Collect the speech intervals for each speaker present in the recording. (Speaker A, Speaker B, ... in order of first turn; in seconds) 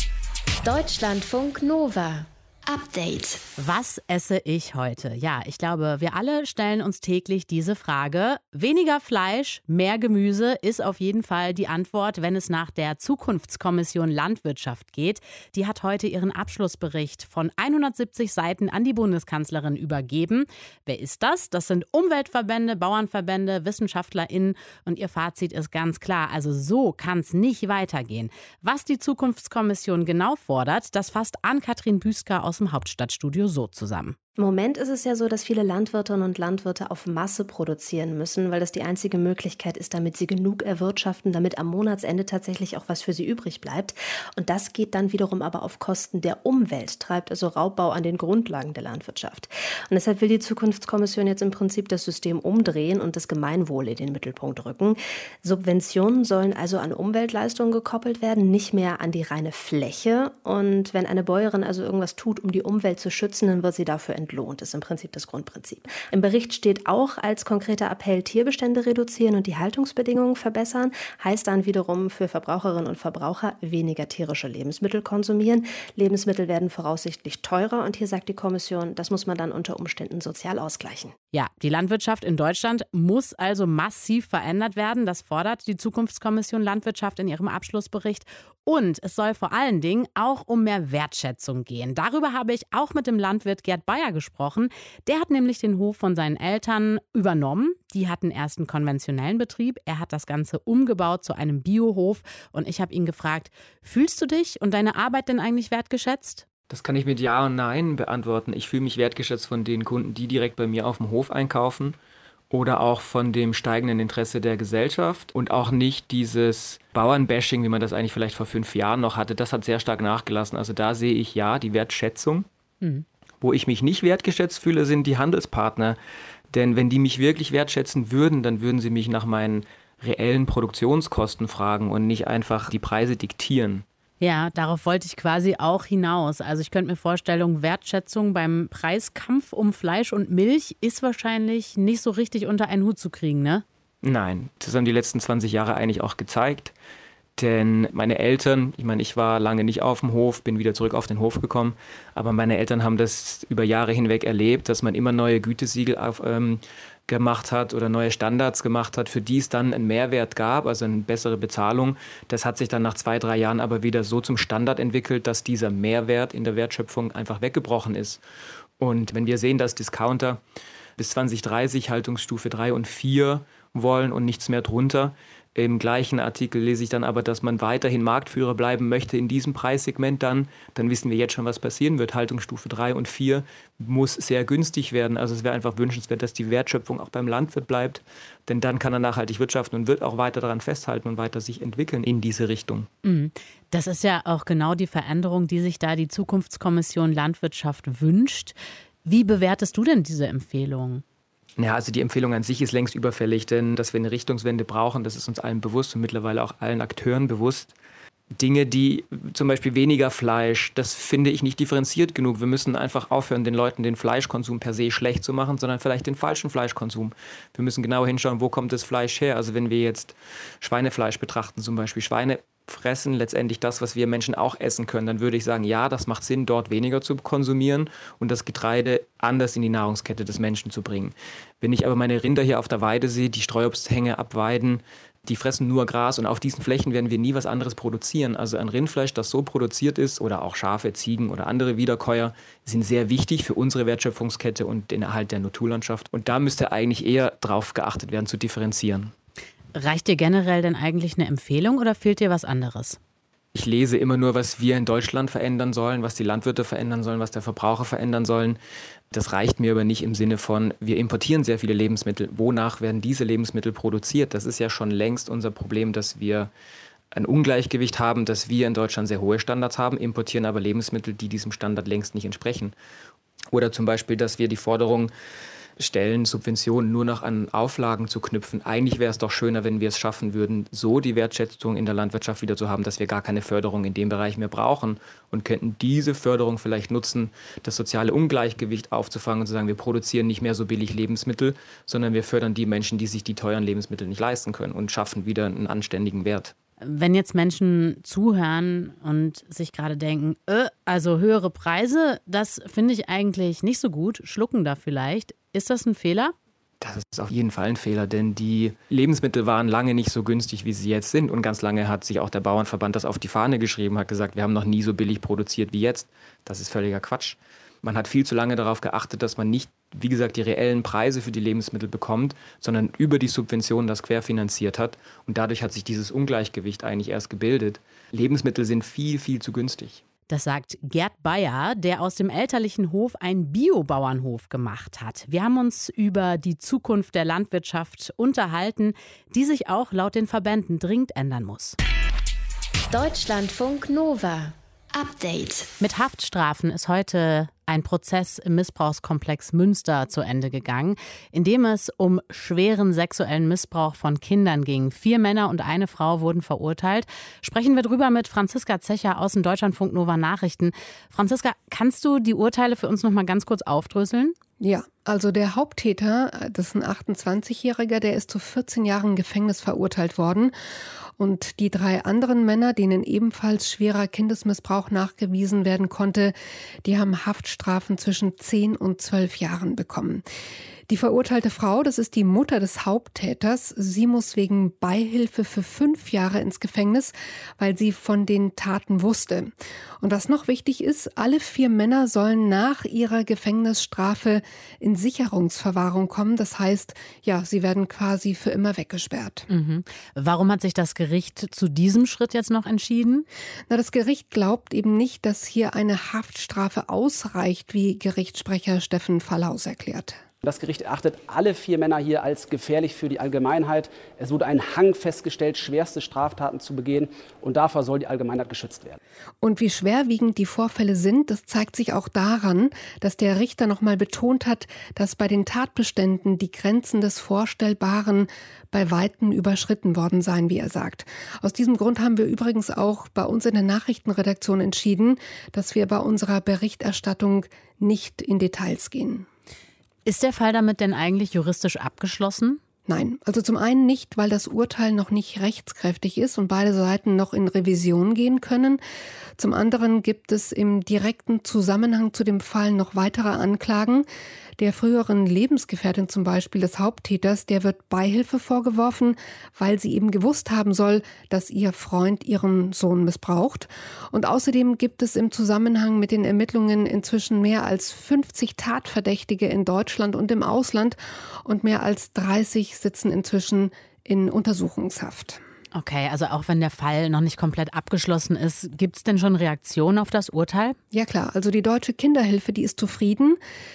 Speaker A: 0.6-3.4, 342.9-345.7
Speaker B: 3.6-34.2, 81.3-106.5, 134.2-143.6, 193.0-201.0, 249.8-253.0, 296.8-306.3, 330.3-341.8, 345.8-364.4, 399.5-403.3, 440.1-442.6, 475.7-480.8
Speaker C: 34.4-81.1
Speaker D: 106.7-112.0, 112.5-122.5, 123.4-126.0, 126.5-133.8, 144.0-146.7, 147.4-168.2, 168.8-170.4, 171.0-192.9, 201.6-207.7, 208.4-249.1, 253.5-258.6, 259.1-266.5, 267.1-272.7, 273.5-275.1, 275.8-296.5, 306.8-330.0
Speaker E: 364.6-370.5, 371.2-380.2, 380.9-399.5, 403.7-410.2, 419.4-439.3, 442.9-448.8, 449.4-454.1, 454.6-475.4, 480.9-483.4
Speaker F: 410.4-419.0